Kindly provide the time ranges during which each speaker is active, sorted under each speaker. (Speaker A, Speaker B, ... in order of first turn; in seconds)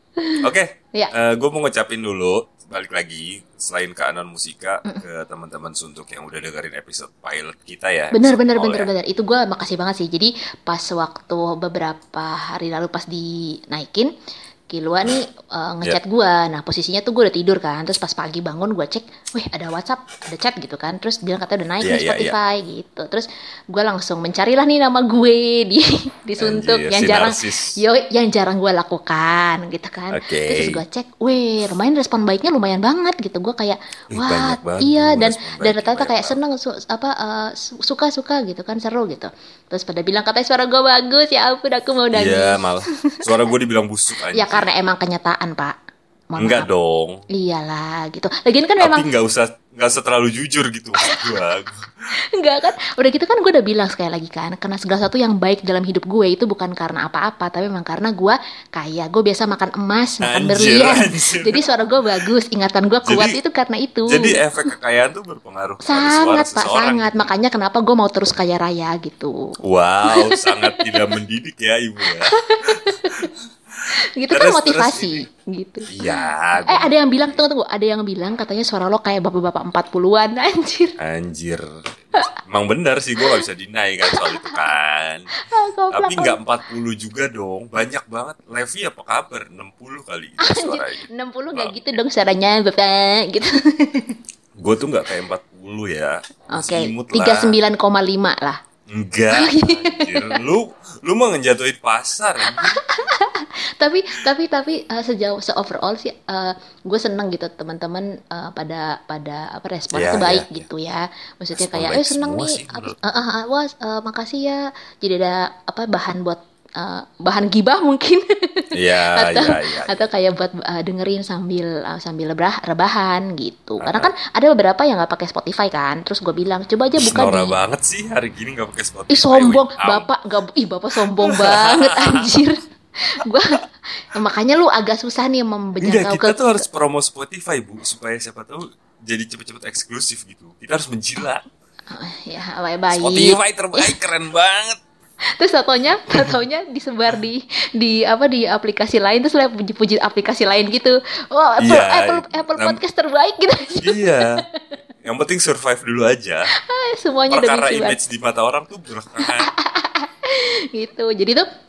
Speaker A: 0.2-1.1, 8.1-14.1, 14.7-43.3, 44.3-45.8, 46.3-46.7, 47.3-49.1, 51.0-51.4, 52.1-64.4, 65.8-71.2, 72.1-73.3, 73.9-81.0, 84.1-84.7, 85.3-86.4, 90.4-94.2, 96.5-98.6, 99.3-100.4, 102.4-127.6, 129.1-136.7, 141.9-144.0, 145.3-154.7, 156.5-158.0, 159.2-161.5
Speaker B: 0.4-8.9, 21.8-22.4, 26.4-27.8, 30.1-30.8, 34.1-36.4, 42.1-44.7, 46.4-47.2, 48.8-51.9, 60.2-61.7, 63.0-63.4, 64.1-67.3, 69.6-75.2, 75.9-77.4, 81.0-85.3, 85.9-91.8, 94.6-97.5, 98.9-102.8, 109.9-110.7, 111.5-113.0, 118.7-119.9, 123.8-124.1, 127.0-130.1, 131.0-132.3, 135.8-141.5, 142.9-144.8, 151.6-152.8, 153.8-154.4, 155.0-156.5, 157.3-159.5